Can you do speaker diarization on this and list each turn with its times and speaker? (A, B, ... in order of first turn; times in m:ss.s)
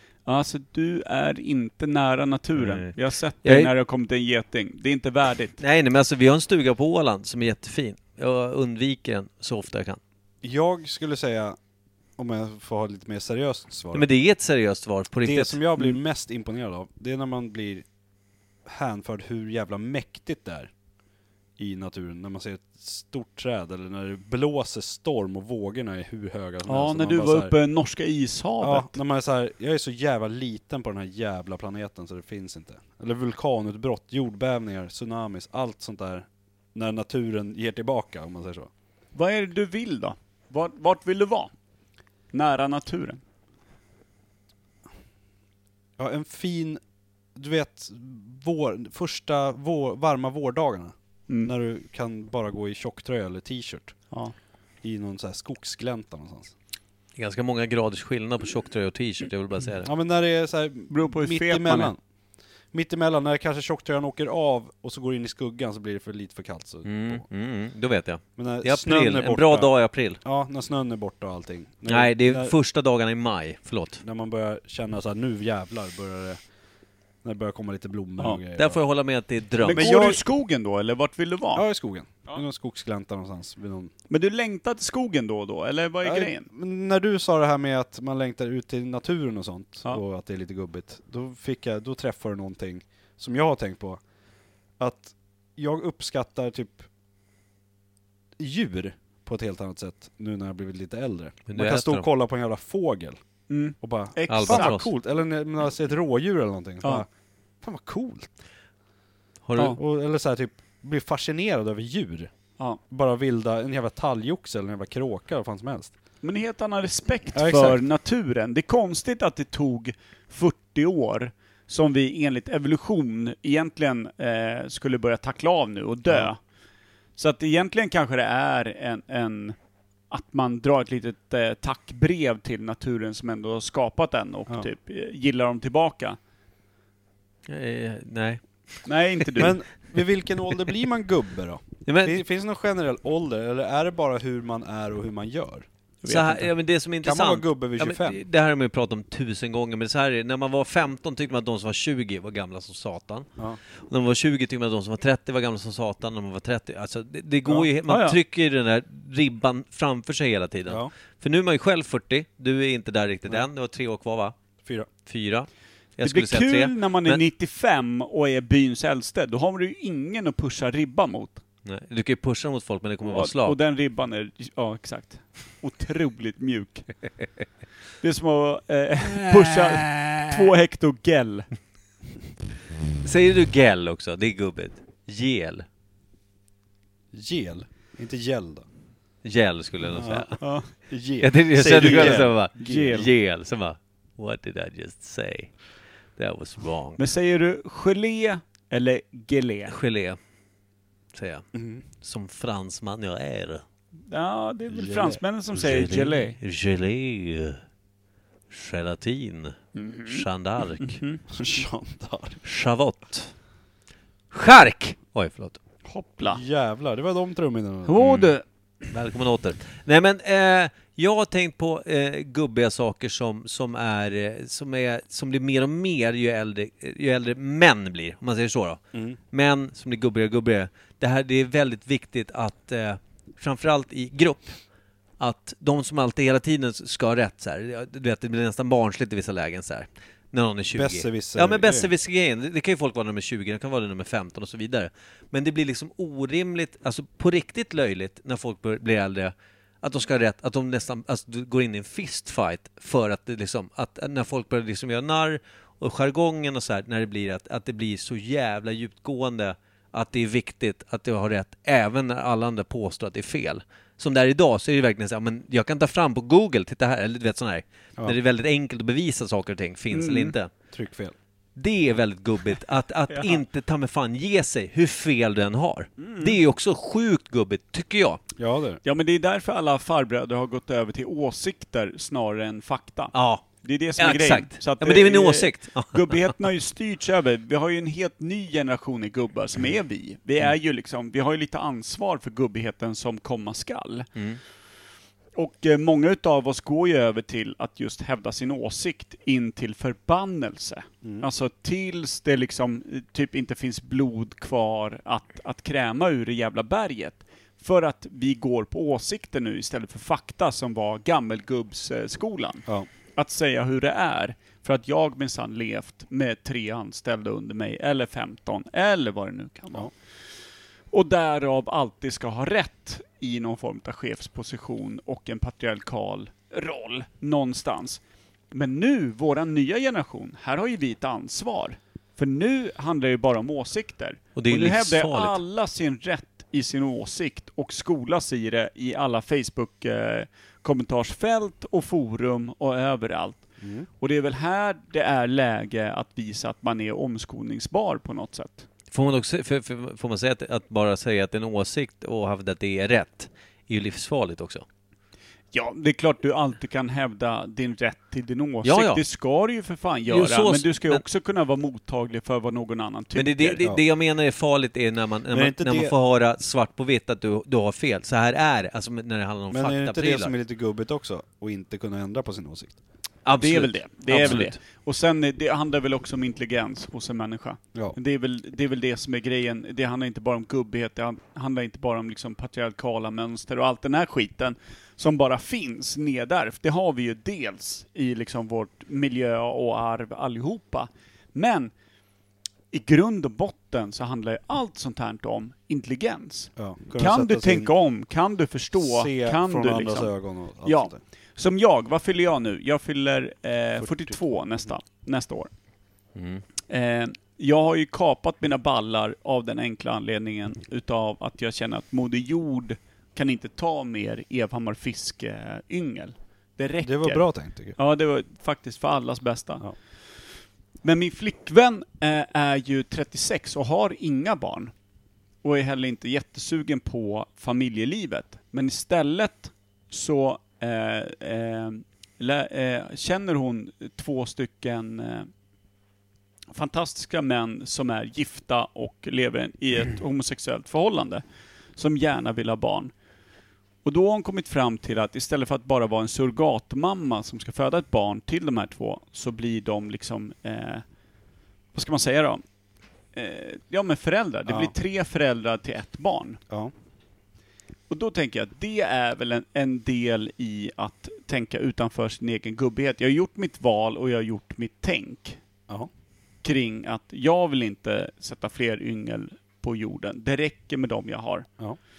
0:00.2-0:05.6 A
0:02.6-0:03.7 B
0:05.6-0:10.0 B
0:10.4-0:11.6 C
0:12.2-0:14.1 C
0:13.9-0:15.9 B
0:15.2-0:17.8 C
0:18.6-0:20.7 C
0:21.6-0:27.5 C
0:26.6-0:28.9 A
0:28.6-0:38.7 C
0:39.1-0:41.5 A
0:42.3-0:43.2 A
0:46.0-0:46.8 C
0:47.4-0:54.0 C
0:54.8-0:56.5 C
0:57.2-0:59.9 B
0:59.8-1:02.0 C
1:00.9-1:01.9 A
1:02.7-1:07.2 C
1:06.8-1:10.2 B
1:08.4-1:12.6 C
1:11.9-1:14.0 B
1:14.0-1:16.4 C
1:17.2-1:18.8 C
1:18.5-1:19.9 B
1:19.6-1:21.6 A
1:19.7-1:20.2 C
1:21.5-1:23.9 C
1:24.1-1:26.5 A
1:26.0-1:34.0 C
1:34.8-1:36.9 C
1:38.4-1:43.2 C
1:41.5-1:42.1 B
1:43.5-1:44.8 A
1:43.8-1:47.1 C
1:44.3-1:44.9 B
1:47.6-1:48.3 C
1:49.4-1:49.8 B
1:49.8-1:52.3 C
1:52.9-1:55.9 C
1:56.2-2:06.4 A
1:57.3-1:57.8 C
2:07.2-2:09.5 A
2:10.1-2:16.2 A
2:17.5-2:18.4 B
2:18.8-2:19.6 A
2:19.4-2:25.7 C
2:21.8-2:22.2 B
2:26.0-2:26.5 A
2:26.0-2:44.3 B
2:27.0-2:28.2 C
2:37.8-2:38.2 A
2:45.0-2:47.2 B
2:46.0-2:51.4 A
2:51.6-2:53.6 B
2:53.0-2:56.9 A
2:58.0-3:01.5 A
2:59.1-3:00.3 B
3:03.0-3:05.6 B
3:07.1-3:08.6 C
3:09.2-3:10.4 B
3:09.9-3:12.8 C
3:10.4-3:10.7 A
3:11.2-3:15.5 B
3:11.7-3:13.1 A
3:16.2-3:17.0 B
3:17.0-3:19.7 A
3:19.7-3:20.2 B
3:21.1-3:21.4 B
3:21.5-3:21.8 C
3:22.0-3:23.6 B
3:24.1-3:26.4 A
3:24.7-3:25.2 C
3:25.5-3:27.6 B
3:28.5-3:31.0 B
3:29.7-3:30.2 A
3:30.8-3:31.2 A
3:31.3-3:32.4 C
3:32.4-3:33.3 B
3:34.3-3:35.6 B
3:35.8-3:36.4 A
3:36.3-3:38.0 C
3:37.8-3:38.4 A
3:38.0-3:38.3 B
3:38.9-3:54.6 B
3:55.2-4:30.5 B
4:00.7-4:01.9 C
4:29.9-4:30.3 A
4:30.7-4:31.1 C
4:31.6-4:38.2 B
4:33.1-4:33.4 A
4:36.0-4:36.4 A
4:38.4-4:38.8 C
4:38.8-4:54.1 A
4:43.1-4:46.4 B
4:54.1-4:54.4 B
4:55.4-5:19.9 A
5:20.9-5:43.5 A
5:34.4-5:35.4 B
5:43.6-5:43.9 C
5:44.0-5:48.7 A
5:48.9-5:54.6 B
5:55.5-6:03.6 A
5:58.6-5:59.0 B
6:00.1-6:01.0 B
6:03.1-6:10.3 B
6:05.3-6:05.9 C
6:09.5-6:12.8 C
6:13.2-6:14.6 B
6:13.4-6:31.7 A
6:32.7-6:40.1 A
6:36.6-6:37.7 C
6:38.8-6:41.0 C
6:40.6-6:45.5 A
6:43.8-6:44.1 C
6:46.1-6:46.4 B
6:46.7-6:59.6 A
6:56.8-6:57.8 C
7:00.8-7:04.7 A
7:05.4-7:15.3 A
7:16.5-7:21.2 A
7:21.8-7:22.9 A
7:23.8-7:30.8 A
7:31.7-7:32.4 A
7:33.1-7:36.4 A
7:34.5-7:34.7 C
7:37.9-7:45.4 A
7:46.4-7:51.5 A